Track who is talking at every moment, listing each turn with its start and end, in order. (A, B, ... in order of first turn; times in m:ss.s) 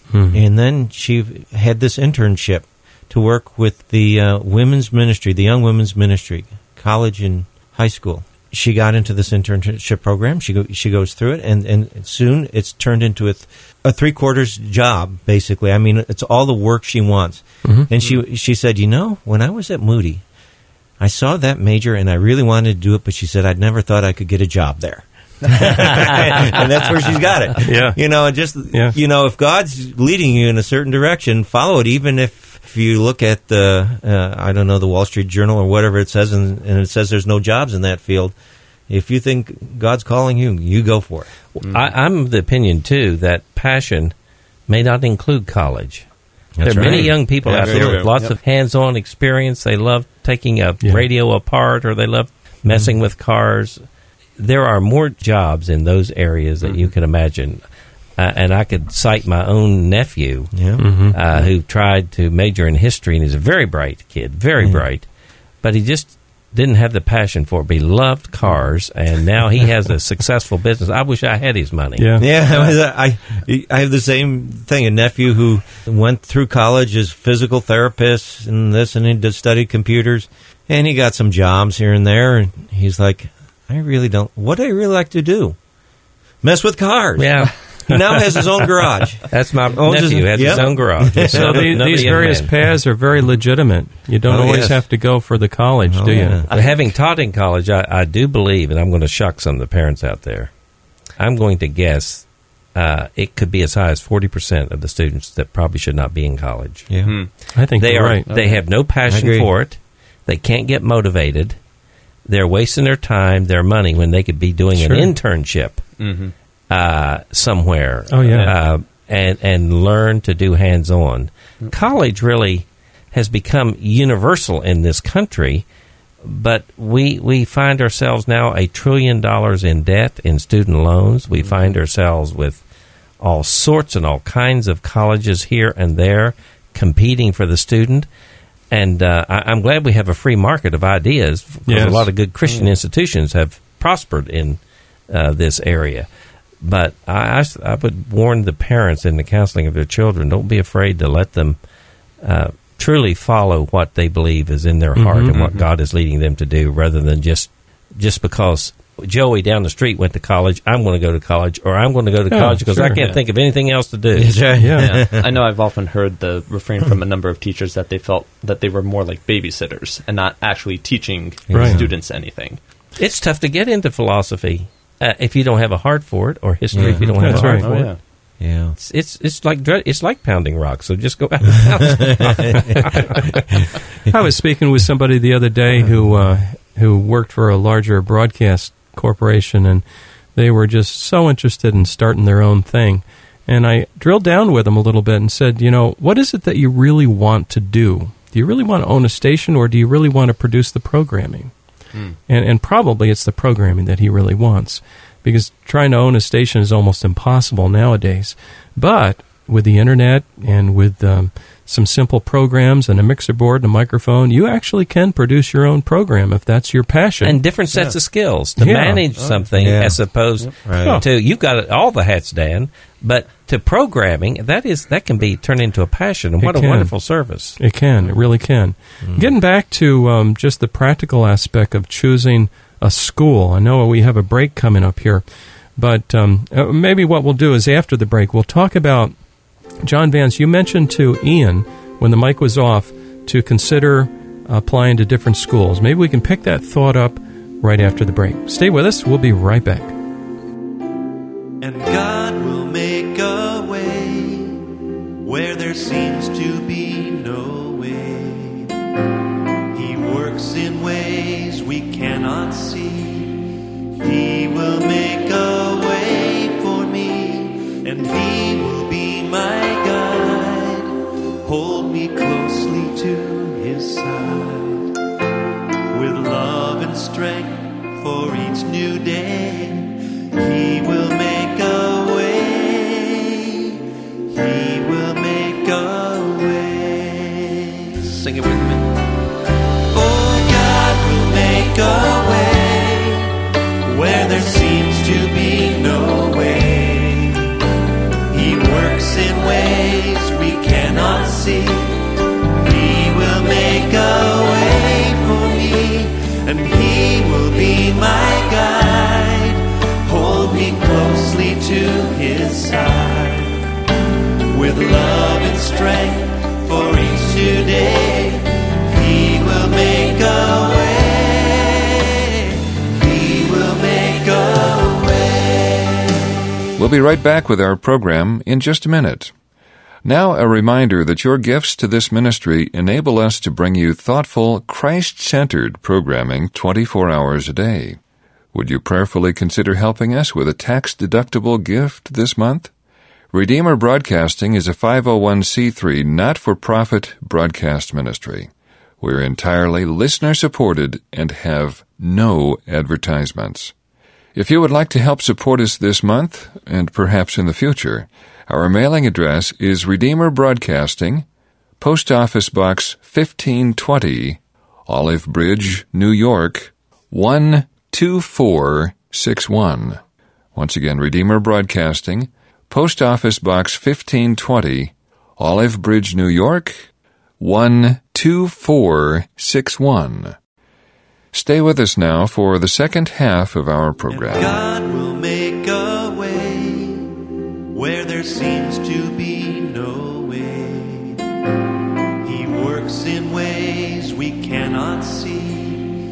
0:00.1-0:00.4 A
0:00.3-0:20.2 B
0:17.6-0:17.9 A
0:21.0-0:38.3 B
0:27.6-0:28.0 A
0:38.9-0:41.3 B
0:41.6-0:44.1 C
0:41.6-0:41.9 D
0:44.7-0:46.1 C
0:46.6-0:48.0 B
0:46.6-0:53.8 C
0:46.7-0:48.3 D
0:52.7-0:52.9 B
0:54.4-0:57.6 C
0:56.6-0:56.9 D
0:58.2-1:05.1 C
1:00.5-1:00.9 B
1:00.8-1:01.2 A
1:05.6-1:12.1 C
1:12.0-1:12.3 A
1:12.2-1:25.6 B
1:26.4-1:32.1 B
1:27.2-1:28.7 C
1:29.3-1:32.5 C
1:31.2-1:36.4 A
1:34.3-1:34.8 B
1:35.9-1:36.5 B
1:36.5-1:36.8 D
1:36.5-1:40.5 C
1:41.2-1:47.1 C
1:46.9-1:47.2 B
1:47.0-1:47.3 D
1:47.5-1:48.3 A
1:47.8-1:51.6 C
1:48.3-1:48.6 D
1:49.1-1:49.5 B
1:52.3-1:55.9 C
1:54.8-1:55.1 A
1:56.0-1:56.3 D
1:56.7-2:05.6 C
1:58.1-1:58.5 A
1:58.3-1:58.6 D
2:06.2-2:12.6 C
2:11.4-2:11.7 D
2:13.2-2:18.1 C
2:18.7-2:26.1 C
2:21.7-2:22.1 A
2:22.4-2:22.7 D
2:26.6-2:31.6 C
2:32.2-2:44.4 C
2:35.0-2:35.3 A
2:35.3-2:35.6 D
2:42.3-2:43.0 A
2:44.1-2:45.2 B
2:44.6-2:44.9 A
2:44.8-2:52.6 D
2:51.5-2:51.9 B
2:51.5-2:51.8 A
2:53.0-2:57.9 C
2:56.7-2:57.7 B
2:56.9-2:58.0 D
2:57.2-2:57.7 A
2:58.4-2:58.8 B
2:58.8-3:03.7 C
3:02.0-3:02.8 B
3:04.1-3:21.5 A
3:05.8-3:06.1 B
3:22.3-3:37.4 A
3:37.2-3:47.6 C
3:38.6-3:39.0 A
3:39.2-3:39.5 D
3:39.6-3:40.0 B
3:40.6-3:41.0 B
3:40.8-3:41.0 A
3:46.4-3:46.9 A
3:47.6-3:55.2 A
3:49.0-3:49.3 B
3:55.8-3:59.2 A
3:59.8-4:09.9 A
4:11.6-4:14.6 E
4:15.2-4:18.7 E
4:19.7-4:23.4 E
4:24.0-4:34.9 E
4:35.9-4:43.8 E
4:44.3-4:48.9 E
4:49.9-4:57.5 E
4:58.3-5:02.0 E
5:02.6-5:13.6 E
5:14.5-5:26.0 E
5:26.8-5:29.3 F
5:30.0-5:38.0 F
5:38.5-5:42.7 F
5:43.3-5:53.7 F
5:54.4-6:01.3 F
6:01.8-6:10.0 F
6:10.5-6:20.4 F
6:21.3-6:24.6 F
6:24.1-6:27.1 E
6:27.7-6:31.2 E
6:32.2-6:35.9 E